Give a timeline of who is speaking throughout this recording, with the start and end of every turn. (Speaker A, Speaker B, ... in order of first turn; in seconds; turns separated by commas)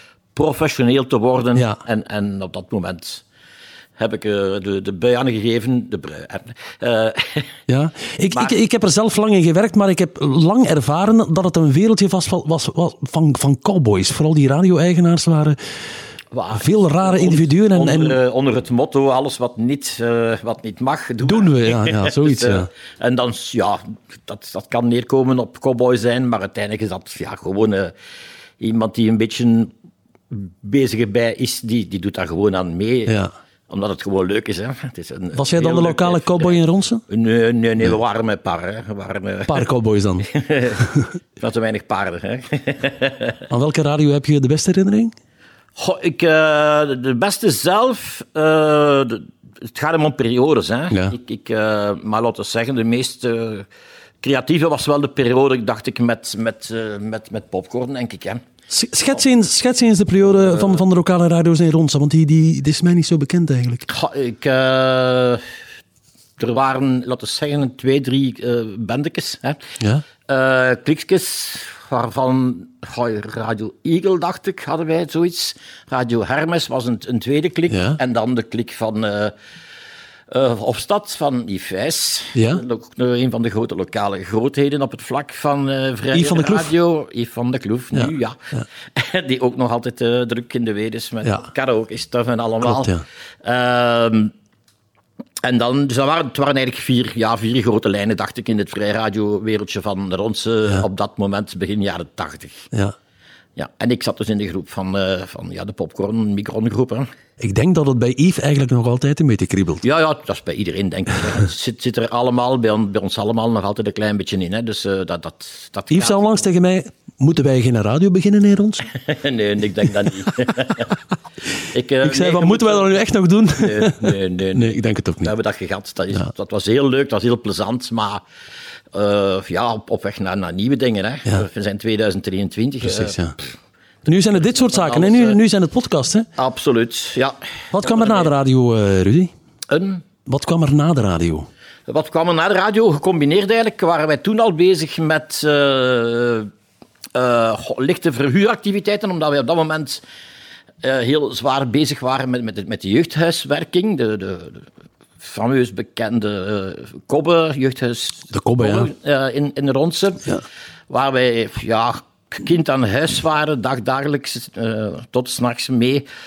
Speaker A: 0.3-3.2, Speaker A: 4.0-7.5, Speaker B: 7.7-15.6, Speaker A: 16.3-27.9, Speaker B: 16.6-18.2, Speaker B: 21.2-22.7, Speaker A: 28.6-29.7, Speaker A: 30.3-39.6, Speaker B: 35.3-37.0, Speaker B: 39.5-40.3, Speaker A: 40.3-43.4, Speaker B: 43.5-45.1, Speaker A: 45.8-53.7, Speaker A: 54.2-58.4, Speaker B: 58.7-63.9, Speaker A: 63.9-65.4, Speaker A: 66.4-69.6, Speaker A: 70.3-79.3, Speaker B: 77.7-78.0, Speaker A: 80.3-88.4, Speaker B: 82.3-82.6, Speaker B: 86.1-86.7, Speaker A: 88.9-94.3, Speaker B: 92.6-93.0, Speaker A: 95.4-102.7, Speaker A: 103.6-107.1, Speaker B: 107.4-109.8, Speaker A: 109.8-116.5, Speaker B: 115.9-118.9, Speaker A: 118.9-120.9, Speaker A: 121.6-123.0, Speaker B: 122.0-125.3, Speaker A: 123.6-128.2, Speaker A: 128.9-133.5, Speaker B: 132.8-133.3, Speaker B: 134.0-136.3, Speaker A: 134.4-135.4, Speaker A: 136.4-138.3, Speaker B: 137.7-139.3, Speaker A: 139.7-140.0, Speaker B: 140.2-141.5, Speaker A: 141.9-146.5, Speaker A: 147.1-150.0, Speaker A: 150.8-154.6, Speaker A: 155.2-160.3, Speaker B: 158.3-158.9, Speaker A: 160.9-166.0